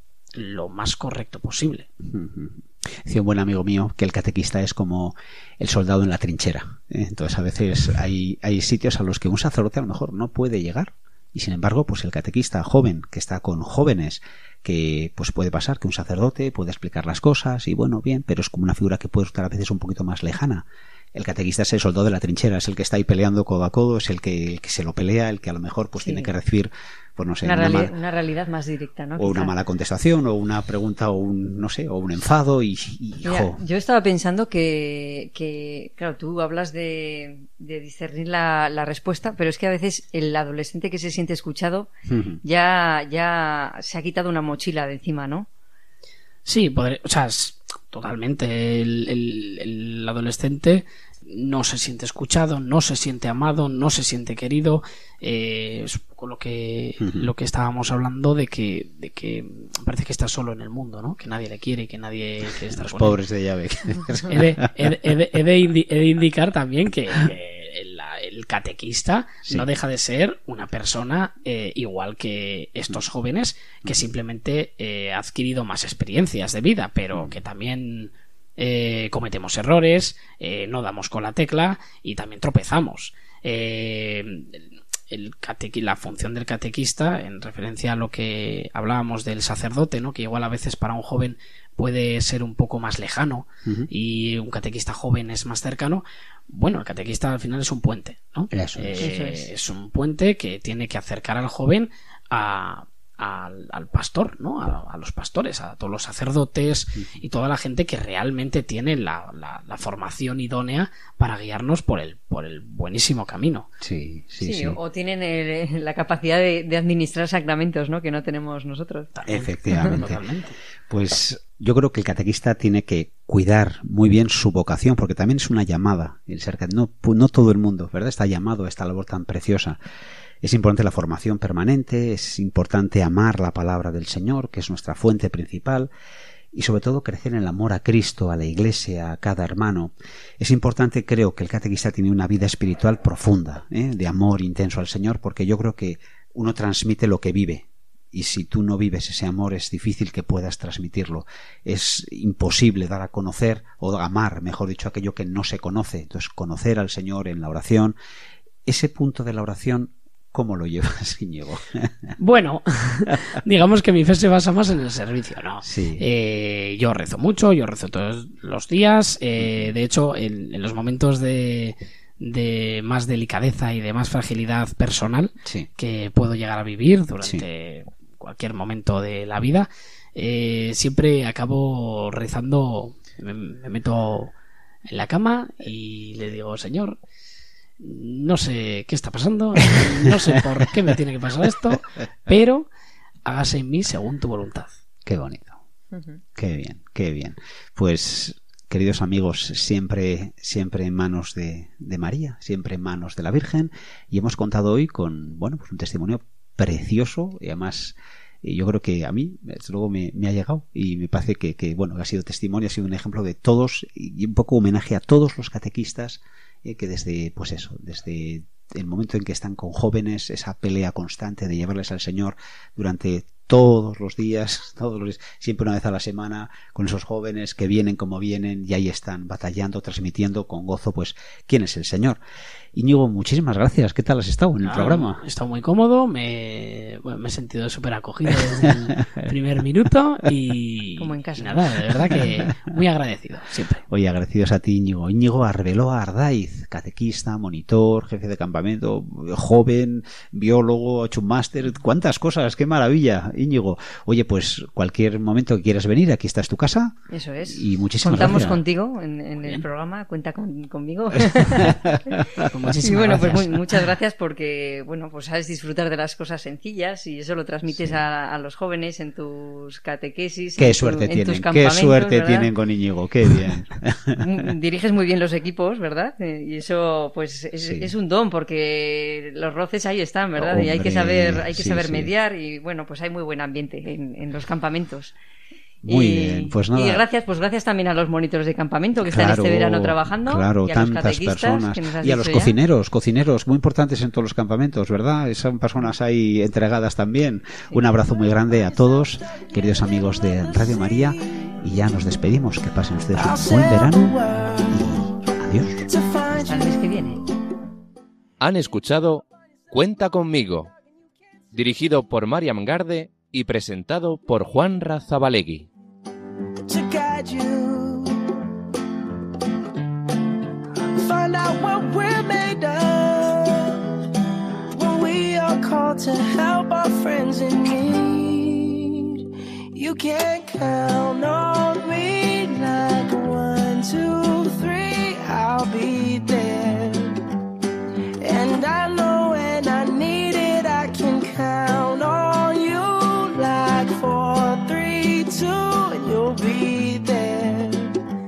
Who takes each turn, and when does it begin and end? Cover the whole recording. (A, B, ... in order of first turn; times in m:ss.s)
0:00.4-0:01.9 A
0:02.0-0:27.9 B
0:26.0-0:26.3 C
0:27.4-0:29.5 C
0:29.2-0:33.6 B
0:33.2-0:41.9 C
0:42.1-0:42.4 B
0:42.4-0:45.5 C
0:46.4-1:03.2 A
0:57.0-0:57.3 B
1:02.8-1:04.7 B
1:04.3-1:53.7 A
1:13.8-1:14.1 B
1:38.5-1:39.1 B
1:39.0-1:39.5 C
1:53.8-1:54.8 B
1:54.4-1:59.1 C
1:59.1-2:00.6 A
1:59.3-2:00.2 B
2:00.9-2:09.8 B
2:10.4-2:15.9 B
2:16.5-2:38.0 B
2:38.7-2:42.1 B
2:42.2-3:04.3 A
2:45.6-2:46.0 B
2:49.4-2:49.7 B
2:55.4-2:55.7 B
3:04.9-3:07.0 A
3:07.8-3:12.7 A
3:13.3-3:14.8 A
3:15.0-3:15.6 B
3:16.4-3:52.2 B
3:52.7-3:55.2 B
3:54.6-4:03.8 A
3:58.3-3:58.7 B
4:01.0-4:01.7 C
4:03.9-4:17.0 B
4:17.1-4:21.8 C
4:17.5-4:18.6 B
4:21.2-4:22.2 B
4:22.4-4:23.6 A
4:22.8-4:32.5 C
4:27.7-4:28.0 B
4:30.6-4:34.2 B
4:34.2-4:45.1 C
4:37.6-4:37.9 B
4:40.4-4:42.1 B
4:45.8-4:47.0 B
4:45.9-4:52.6 C
4:49.0-5:04.2 B
5:00.5-5:01.2 D
5:03.1-5:05.0 D
5:04.7-5:05.9 B
5:05.9-5:07.1 D
5:06.5-5:07.2 C
5:08.4-5:10.7 E
5:11.5-5:15.7 E
5:16.7-5:18.2 D
5:21.0-5:23.8 D
5:24.7-5:37.2 D
5:38.2-5:47.9 D